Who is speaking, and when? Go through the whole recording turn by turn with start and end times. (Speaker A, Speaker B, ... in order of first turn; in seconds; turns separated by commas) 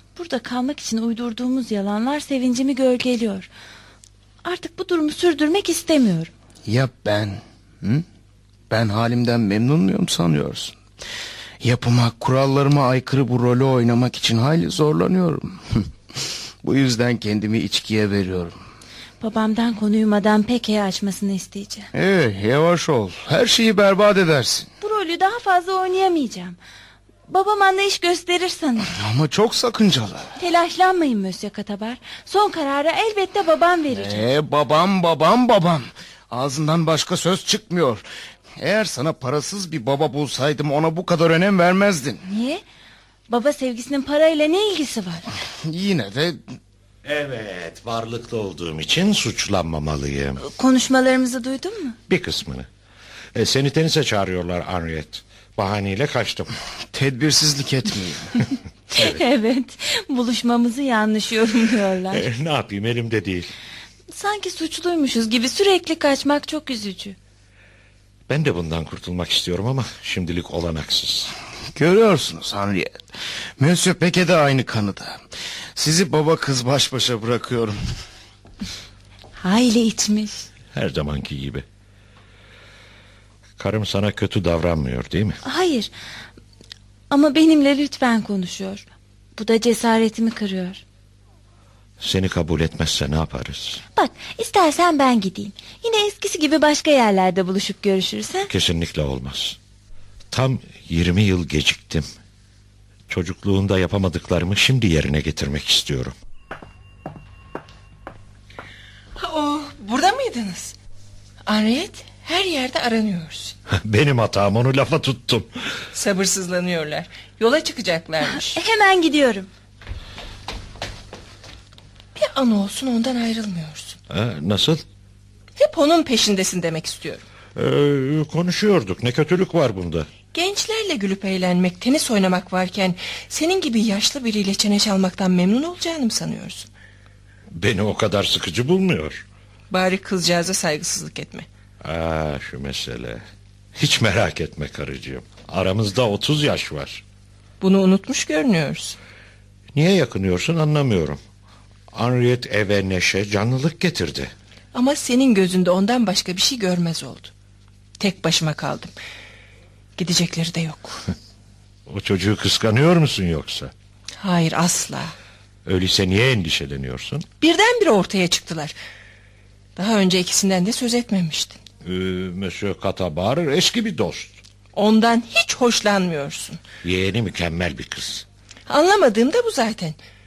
Speaker A: 0.1-3.5, Speaker A: 4.4-6.3, Speaker B: 6.7-8.0, Speaker B: 8.7-10.7, Speaker B: 11.6-18.6, Speaker A: 19.2-21.9, Speaker B: 21.9-24.7, Speaker A: 24.8-26.6, Speaker A: 27.3-28.9, Speaker B: 28.9-30.3, Speaker A: 30.4-34.2, Speaker B: 33.9-38.0, Speaker B: 38.6-42.2, Speaker A: 42.2-42.6, Speaker A: 43.3-45.2, Speaker B: 45.6-46.4, Speaker C: 47.0-50.4, Speaker A: 50.4-52.0, Speaker C: 52.1-52.7, Speaker C: 53.3-56.5, Speaker B: 56.9-58.4, Speaker A: 58.9-62.2, Speaker C: 62.1-63.5, Speaker A: 64.1-67.2, Speaker C: 68.3-71.3, Speaker B: 71.7-73.0, Speaker B: 73.6-75.2, Speaker B: 75.8-77.8, Speaker A: 79.4-80.5, Speaker C: 80.7-81.6, Speaker C: 83.6-85.4, Speaker A: 85.4-85.9, Speaker A: 87.1-88.8, Speaker A: 89.4-90.8, Speaker C: 92.0-93.8, Speaker A: 94.0-98.5, Speaker C: 98.5-99.6, Speaker C: 100.3-102.0, Speaker C: 103.1-106.1, Speaker D: 109.2-110.7, Speaker D: 111.5-113.5, Speaker C: 113.7-115.5, Speaker D: 115.9-118.6, Speaker A: 118.4-119.5, Speaker D: 122.1-124.0, Speaker C: 124.1-124.8, Speaker D: 125.5-127.2, Speaker C: 127.5-130.1, Speaker D: 130.3-136.7, Speaker C: 137.5-139.2, Speaker D: 139.7-141.5, Speaker C: 141.8-143.2, Speaker C: 143.8-147.0, Speaker D: 147.6-149.0, Speaker C: 149.7-151.2, Speaker C: 151.9-154.3, Speaker D: 154.7-157.3, Speaker D: 158.0-158.9, Speaker D: 160.0-161.1, Speaker C: 161.9-163.7, Speaker D: 164.2-165.1, Speaker C: 165.6-167.3, Speaker D: 167.4-168.7, Speaker D: 169.8-171.6, Speaker C: 171.8-174.4, Speaker D: 174.7-176.6, Speaker C: 176.8-178.2, Speaker D: 178.7-180.0